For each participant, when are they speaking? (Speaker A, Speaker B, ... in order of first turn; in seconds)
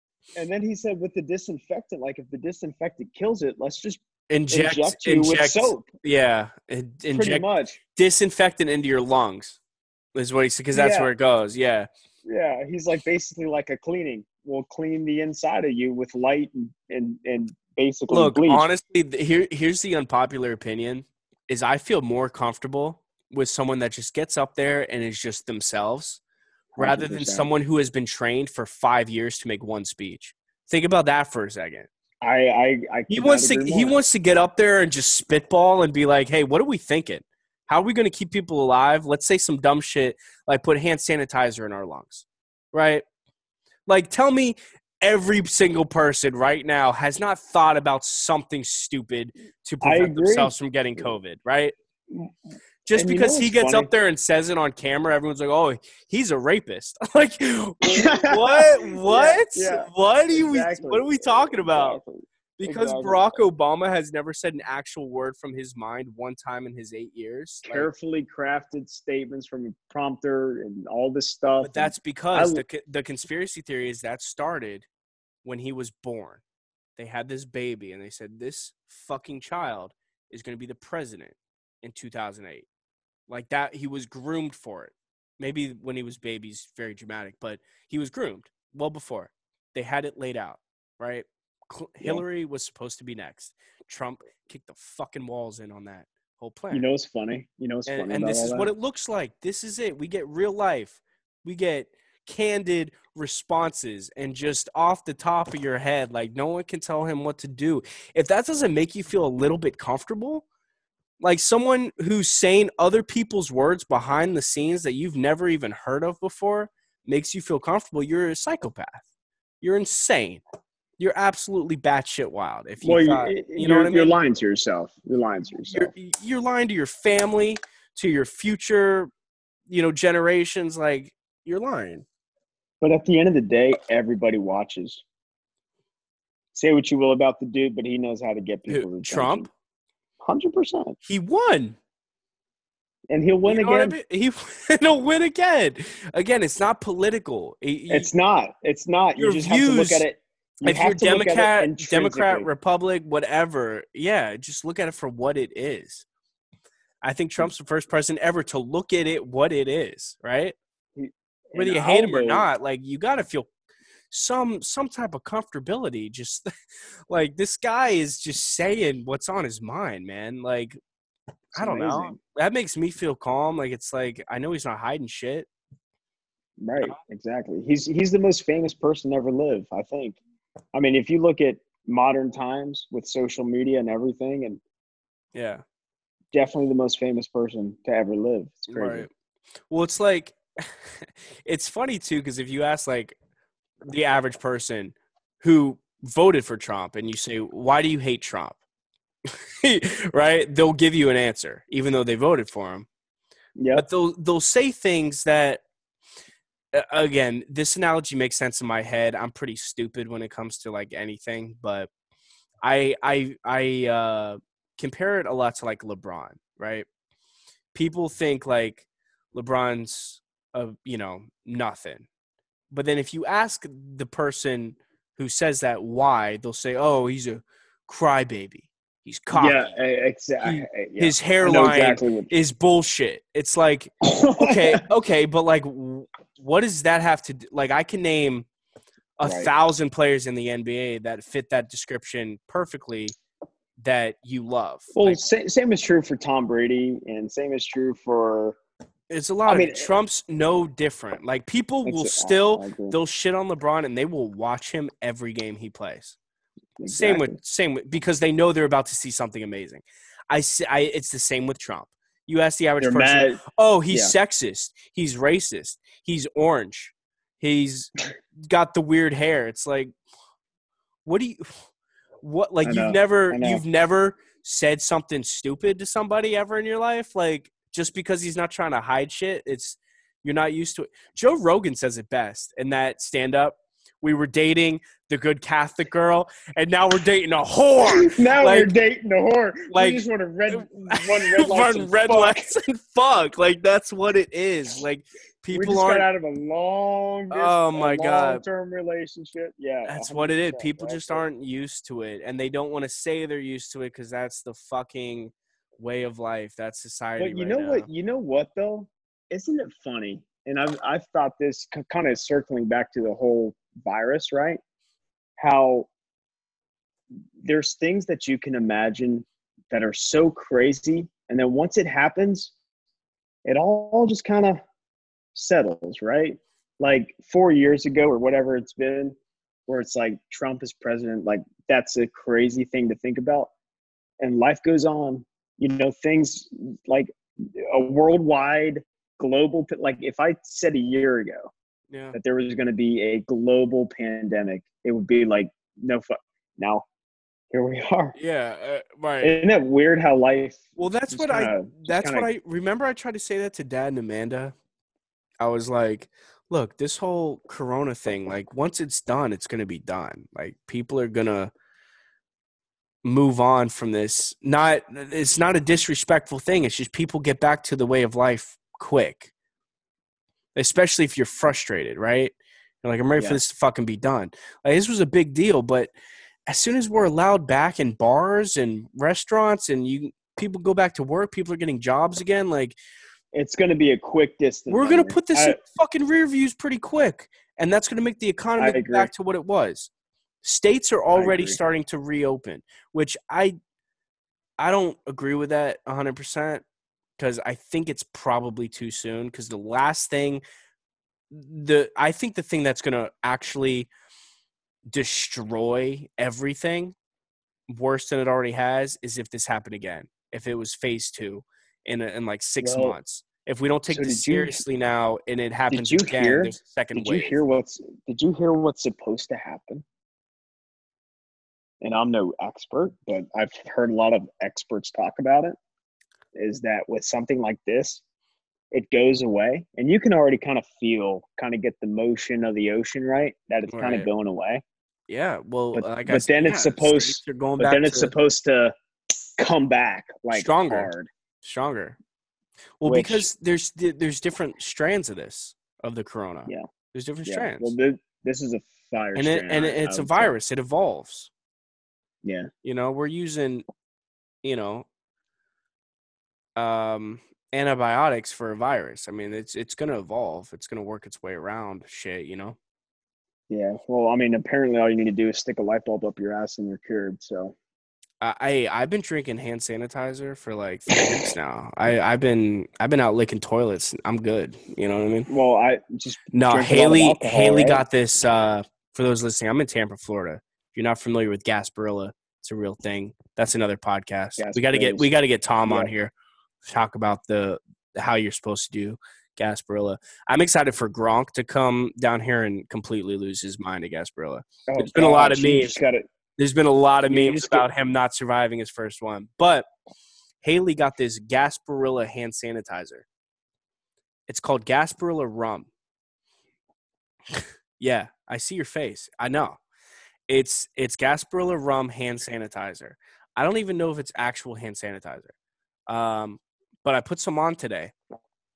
Speaker A: 0.3-5.9, 7.1-7.8, 10.7-11.1, 12.2-18.6, 26.8-27.5, 32.2-33.9, 49.8-51.1, 52.9-53.9, 57.8-63.4, 67.6-72.6, 96.7-98.7, 122.8-125.9, 132.8-135.0, 136.5-139.5, 140.2-140.9, 143.1-143.9, 147.9-152.5, 160.9-162.5, 171.5-172.2, 176.6-180.2, 180.7-184.6, 186.3-189.1, 203.6-203.8, 229.3-232.3, 234.0-234.8, 239.2-239.5, 244.9-248.6, 249.5-249.9, 251.8-253.0, 256.8-257.4, 262.8-264.1, 272.6-273.6, 287.8-292.5, 295.5-301.2, 307.2-314.6, 315.4-315.9, 317.4-322.5, 323.4-324.6, 325.3-329.1, 329.7-333.5, 334.2-341.5, 342.1-346.8, 347.5-348.1, 349.2-352.3, 383.3-385.6, 388.6-389.1, 391.1-391.6, 412.6-413.0, 413.9-414.6, 415.7-419.8, 421.8-425.6, 426.3-428.0, 428.7-434.6, 435.7-438.7, 439.4-441.1, 442.8-443.3, 447.2-450.3, 452.2-452.5, 463.5-467.6, 475.3-477.8, 484.4-485.1, 485.6-485.9, 494.7-496.0, 497.1-497.6
Speaker B: 4.3-9.6, 10.1-11.9, 18.1-26.2, 26.8-31.9, 33.1-43.0, 43.9-51.7, 52.8-62.0, 62.6-67.9, 71.6-74.9, 75.4-76.4, 77.0-82.7, 83.3-96.8, 97.8-110.4, 111.2-119.0, 119.6-120.4, 121.0-124.1, 125.7-129.1, 129.7-132.0, 138.7-139.5, 141.0-141.8, 143.5-148.1, 149.2-150.0, 150.6-156.0, 157.0-160.6, 161.5-163.5, 164.1-166.5, 167.1-170.8, 171.5-175.5, 185.3-185.6, 188.7-189.1, 189.7-193.2, 193.8-198.6, 199.2-202.9, 203.7-205.6, 206.7-211.9, 212.6-216.8, 217.7-222.1, 222.7-229.7, 230.4-238.5, 239.2-243.1, 243.8-245.2, 249.1-256.1, 256.9-267.9, 268.4-269.9, 271.0-271.6, 272.2-288.7, 289.7-290.0, 290.5-296.1, 297.3-298.4, 299.8-307.9, 341.9-342.2, 348.2-349.4, 350.8-354.5, 355.4-361.5, 363.0-369.3, 370.5-375.9, 376.5-382.8, 384.7-389.9, 390.4-393.6, 394.6-396.6, 397.2-400.4, 401.3-403.9, 404.9-406.9, 407.7-417.4, 433.7-434.1, 435.1-438.1, 440.3-440.9, 441.4-441.9, 442.8-447.7, 449.1-451.3, 452.6-453.6, 454.4-454.9, 456.6-462.6, 468.2-475.3, 476.3-486.1, 486.6-495.8, 496.4-499.7, 500.4-503.1, 504.3-505.7, 507.4-509.6, 510.3-515.3, 515.9-517.9